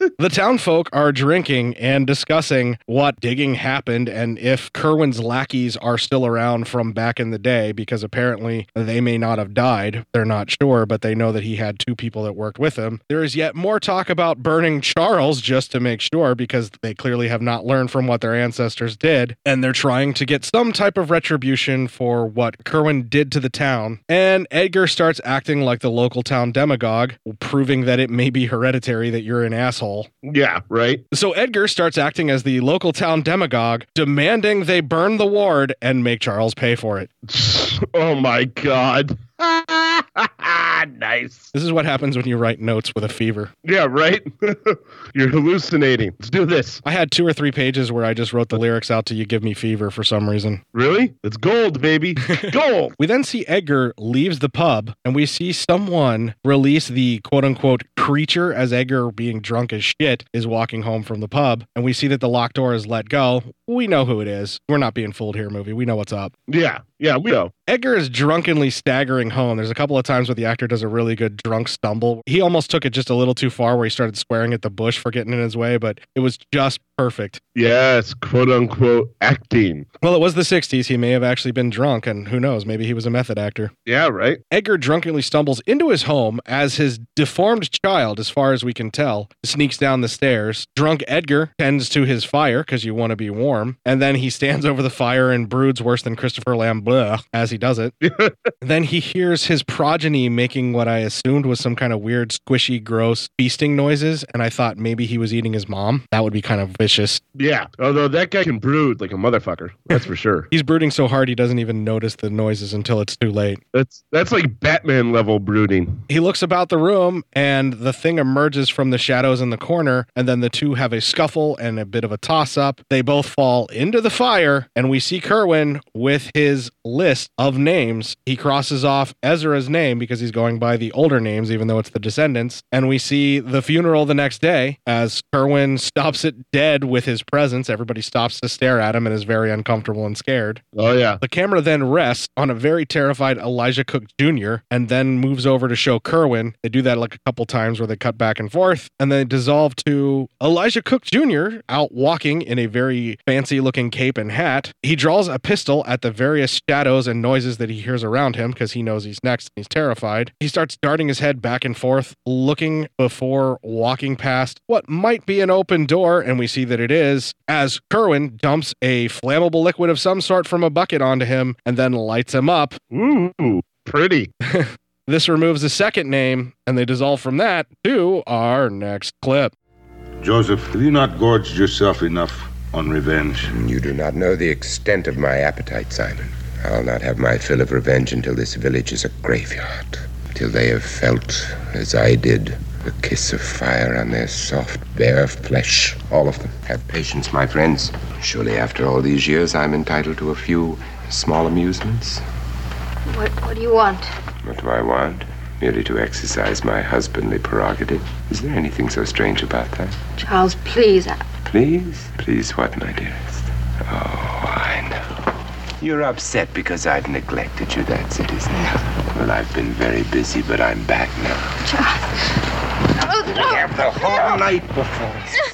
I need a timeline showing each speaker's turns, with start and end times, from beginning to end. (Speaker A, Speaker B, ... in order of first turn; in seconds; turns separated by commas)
Speaker A: 0.2-30.1, Speaker B: 30.2-31.0, Speaker A: 31.1-37.1, Speaker B: 37.3-41.5, Speaker A: 41.5-43.5, Speaker B: 43.6-46.8, Speaker A: 46.8-50.6, Speaker B: 50.7-52.9, Speaker A: 53.0-66.3, Speaker B: 66.5-67.5, Speaker A: 67.7-77.4, Speaker B: 77.5-79.9, Speaker A: 80.0-83.7, Speaker B: 83.9-84.4, Speaker A: 84.5-97.9, Speaker B: 98.0-98.3, Speaker A: 98.6-107.2, Speaker B: 107.4-110.5, Speaker A: 110.5-113.6, Speaker B: 113.7-116.0, Speaker A: 116.1-140.6, Speaker B: 140.8-141.2, Speaker A: 141.2-172.8, Speaker B: 172.9-174.3, Speaker A: 174.4-179.5, Speaker C: 180.2-183.5, Speaker D: 183.5-202.2, Speaker E: 203.1-204.1, Speaker D: 204.4-209.9, Speaker E: 210.2-211.2, Speaker D: 211.4-215.2, Speaker D: 215.8-221.6, Speaker E: 221.6-222.3, Speaker E: 222.9-224.4, Speaker D: 223.3-225.3